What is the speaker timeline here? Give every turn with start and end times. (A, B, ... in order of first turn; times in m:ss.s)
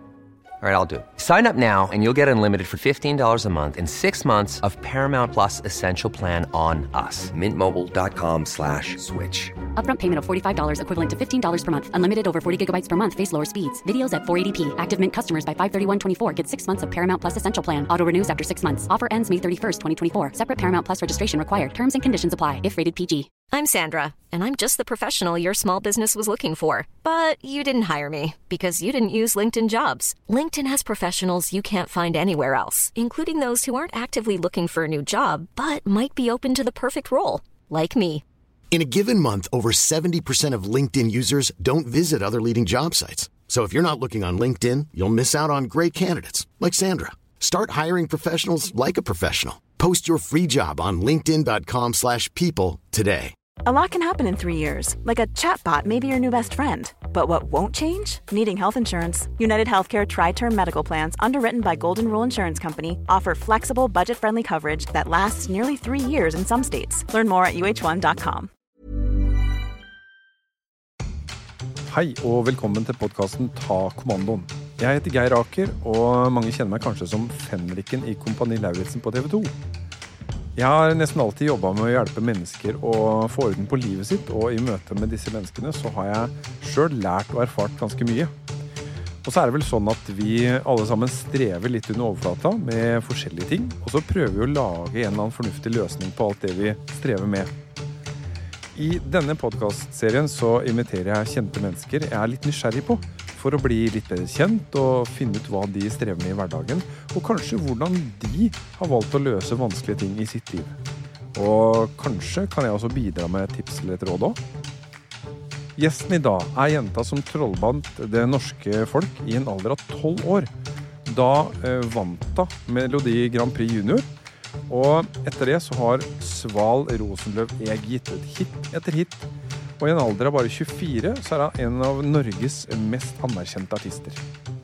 0:00.6-0:09.6 A
0:09.8-0:23.3 B
0:23.5-0:38.2 C
0:38.7-0:53.4 D
0:53.6-1:08.5 E
1:11.8-1:19.6 F
1:20.6-1:28.3 F
1:29.2-1:37.5 F
1:38.7-1:50.8 F
1:51.3-1:54.4 F
1:55.8-2:00.5 F
2:01.0-2:04.1 F
2:04.7-2:14.2 F